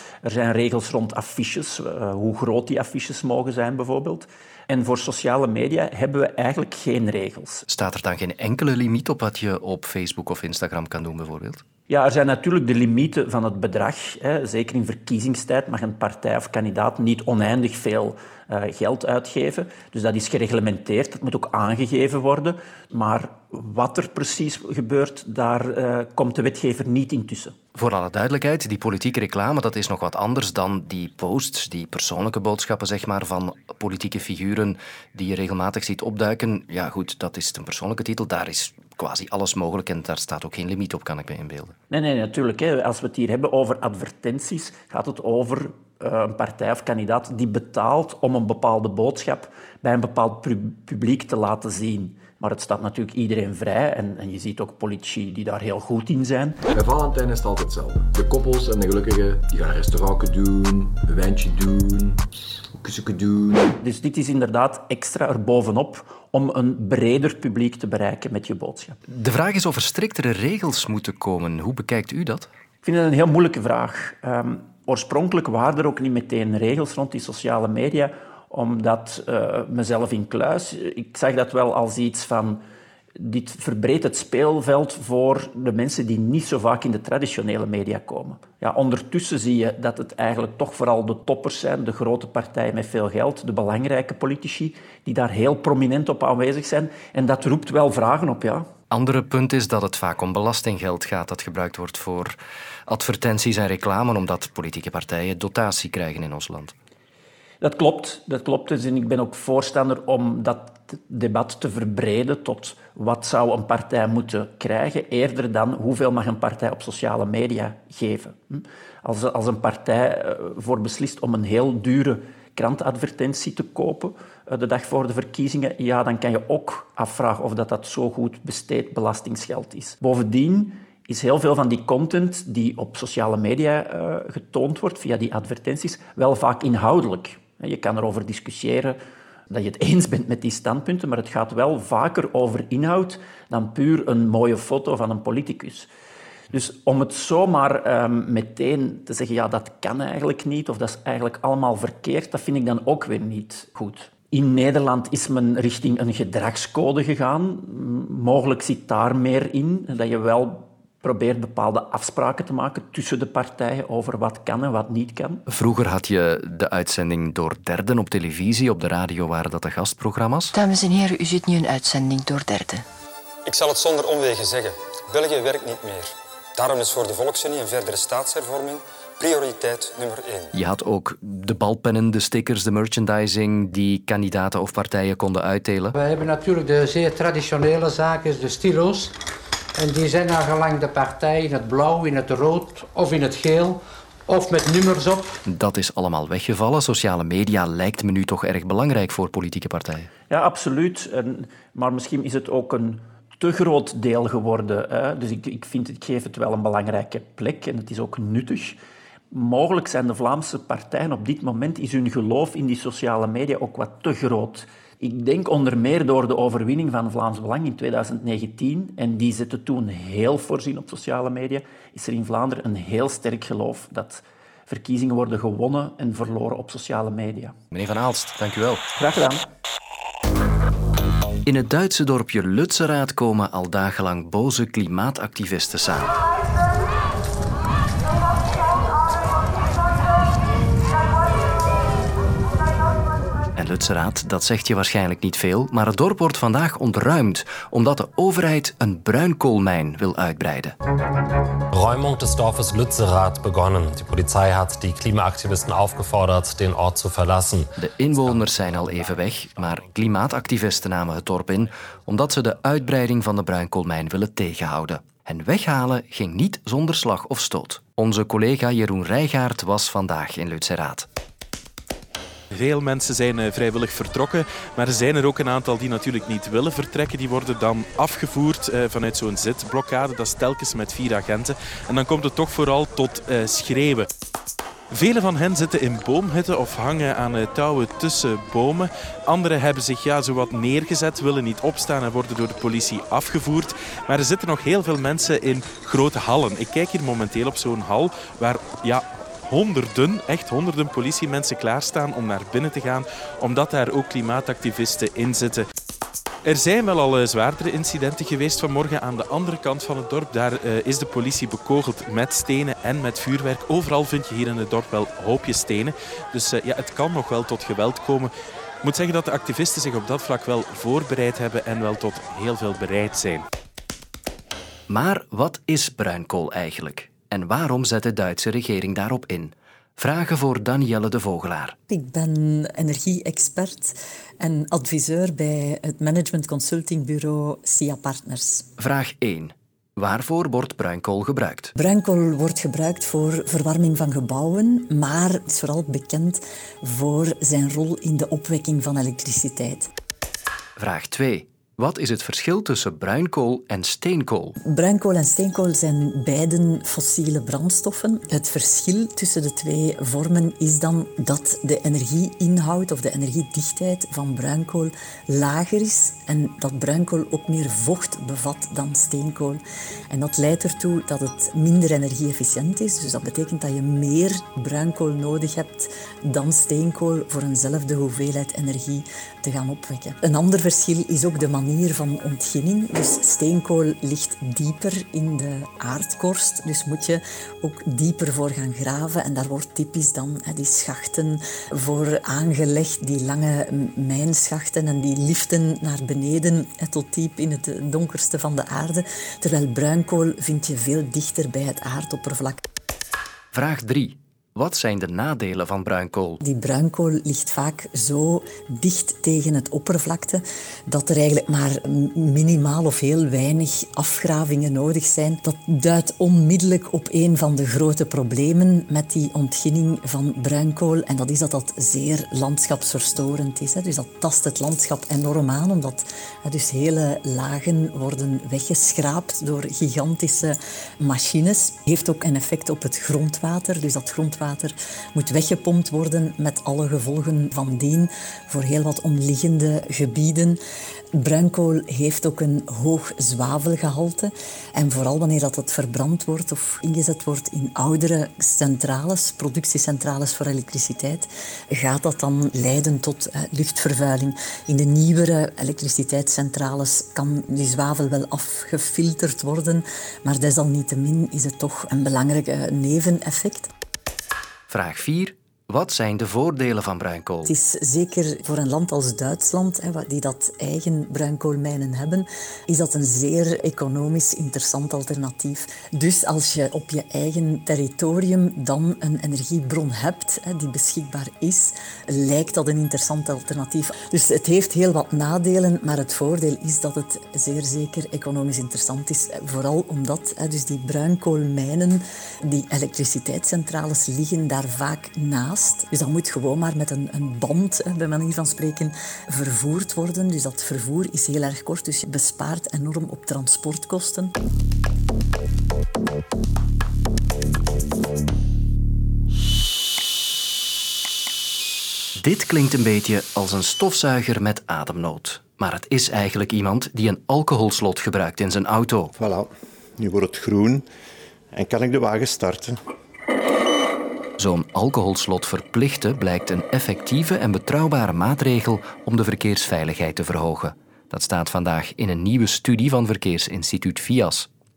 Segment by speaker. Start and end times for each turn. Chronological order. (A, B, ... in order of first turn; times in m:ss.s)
0:00.2-0:07.6 A
0:07.7-0:11.6 B
0:11.9-0:27.6 A
0:27.8-0:41.8 B
0:41.9-0:56.6 A
0:56.7-1:02.2 C
1:02.8-1:03.8 C
1:03.8-1:09.0 A
1:09.1-1:12.5 B
1:12.8-1:22.6 A
1:23.2-1:38.6 A
1:38.9-1:46.7 B
1:47.6-2:19.0 A
2:19.5-2:25.9 A
2:26.5-2:45.4 A
2:45.5-2:50.6 B
2:50.6-2:52.7 D
2:53.4-3:00.5 E
3:00.6-3:06.0 B
3:06.0-3:09.1 F
3:09.8-3:15.4 F
3:15.4-3:20.1 B
3:20.3-3:28.8 A
3:29.3-3:47.5 A
3:47.7-3:48.9 B
3:49.0-3:49.4 A
3:51.4-3:56.2 B
4:03.6-4:10.8 B
4:11.7-4:17.7 G
4:17.8-4:31.1 B
4:32.5-4:44.1 H
4:44.9-5:05.7 H
5:06.4-5:18.3 H
5:18.8-5:23.5 H
5:24.9-5:31.8 B
5:31.9-5:38.7 I
5:38.8-5:41.7 B
5:41.8-5:49.9 I
5:50.8-5:54.6 B
5:54.6-6:42.6 I
6:43.5-6:46.4 B
6:46.4-7:20.6 I
7:21.2-7:43.7 I
7:44.7-7:47.6 B
7:47.5-8:24.3 I
8:32.2-8:39.1 B
8:39.2-8:39.5 J
8:40.0-8:40.8 J
8:41.6-8:42.7 J
8:44.4-8:54.5 B